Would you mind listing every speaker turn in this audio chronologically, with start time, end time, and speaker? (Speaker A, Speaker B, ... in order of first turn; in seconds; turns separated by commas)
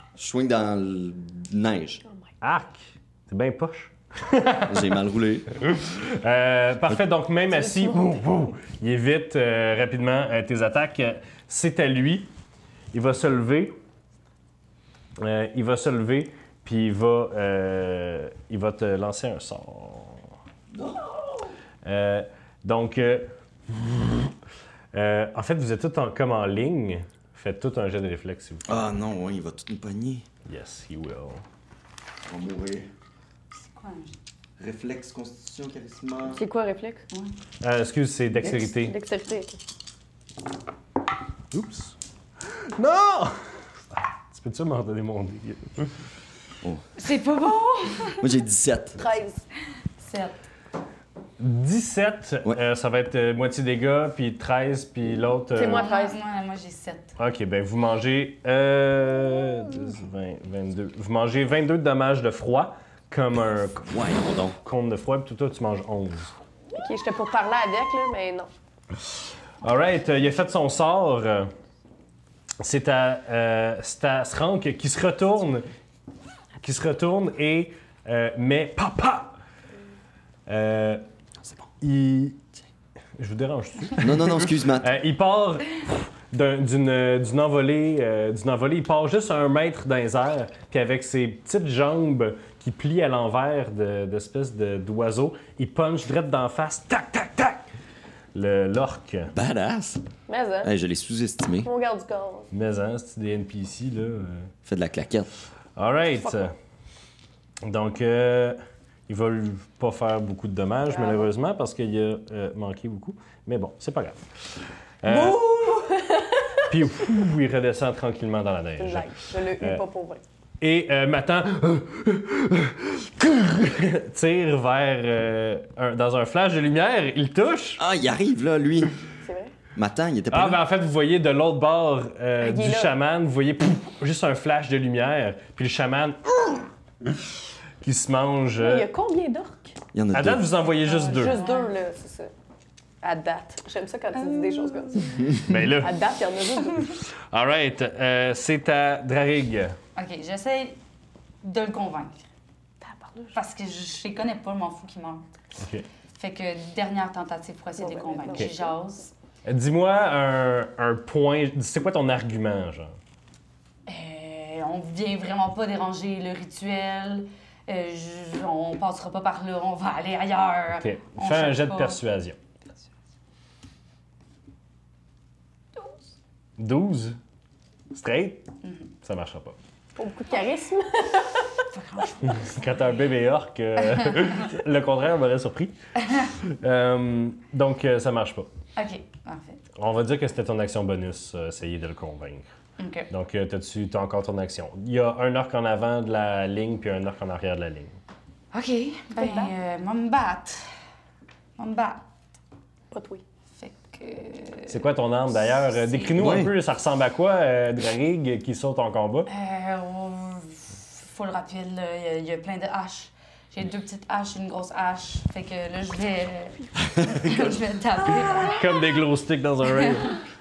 Speaker A: 0.2-2.0, Speaker B: 2.4-4.9, Speaker A: 4.7-5.5, Speaker B: 5.6-12.3, Speaker C: 7.5-8.2, Speaker B: 12.9-13.7, Speaker B: 15.2-20.2, Speaker A: 20.7-21.5, Speaker B: 21.8-24.3, Speaker B: 24.9-28.8, Speaker A: 28.7-30.2, Speaker B: 30.4-31.4, Speaker A: 32.2-32.9, Speaker D: 33.5-34.1, Speaker A: 34.6-36.4, Speaker C: 36.3-37.0, Speaker B: 37.6-38.9, Speaker C: 38.4-39.6, Speaker B: 41.5-41.9, Speaker B: 42.5-43.4, Speaker B: 43.9-46.0, Speaker D: 47.0-48.2, Speaker A: 48.2-49.0, Speaker C: 49.0-49.4, Speaker D: 50.0-50.4, Speaker B: 51.4-55.8, Speaker C: 55.5-56.1, Speaker D: 55.6-57.1, Speaker B: 57.2-64.0, Speaker A: 63.9-64.6, Speaker B: 64.6-66.3, Speaker C: 66.7-68.5, Speaker B: 69.6-71.5, Speaker B: 72.6-75.7, Speaker B: 76.6-79.4, Speaker B: 80.5-81.0, Speaker B: 81.8-82.4, Speaker B: 83.2-97.6, Speaker A: 84.0-84.9, Speaker B: 98.3-99.3, Speaker A: 99.3-100.0, Speaker C: 100.3-100.7, Speaker A: 100.6-101.7, Speaker C: 101.6-102.5, Speaker B: 102.5-104.5, Speaker A: 104.7-105.3, Speaker B: 105.8-106.5, Speaker B: 107.6-114.3, Speaker C: 110.9-111.3, Speaker B: 115.0-115.4, Speaker C: 115.0-116.7, Speaker B: 116.7-119.8, Speaker C: 118.8-120.2, Speaker B: 120.6-127.8, Speaker A: 127.8-128.9, Speaker C: 129.2-129.5, Speaker A: 129.7-130.6, Speaker B: 130.3-136.7, Speaker C: 132.4-132.9, Speaker B: 137.8-138.9, Speaker C: 138.6-139.8, Speaker A: 139.9-140.5, Speaker B: 140.1-141.4, Speaker D: 140.8-141.7, Speaker C: 141.1-142.3, Speaker C: 143.0-146.9, Speaker B: 145.4-146.1, Speaker B: 147.3-149.8, Speaker D: 149.9-150.8, Speaker D: 151.4-152.2, Speaker C: 152.8-153.4, Speaker D: 153.3-155.2, Speaker B: 155.6-155.8, Speaker D: 156.2-159.1, Speaker C: 157.8-158.7, Speaker B: 159.4-162.9, Speaker D: 163.8-172.0, Speaker B: 170.8-172.4, Speaker B: 176.6-177.2, Speaker B: 177.9-178.5, Speaker B: 179.0-179.6, Speaker C: 179.9-181.6, Speaker D: 181.7-182.7, Speaker B: 182.2-188.5, Speaker D: 188.8-189.6, Speaker B: 189.8-192.4, Speaker D: 192.8-193.1, Speaker B: 193.1-198.0, Speaker D: 198.5-200.7, Speaker C: 199.2-199.5, Speaker D: 201.6-202.0, Speaker C: 202.9-203.2, Speaker D: 203.6-204.8, Speaker B: 204.7-209.3, Speaker D: 205.5-206.1, Speaker A: 206.2-206.5, Speaker D: 209.3-218.7, Speaker B: 218.4-220.2, Speaker D: 219.8-220.2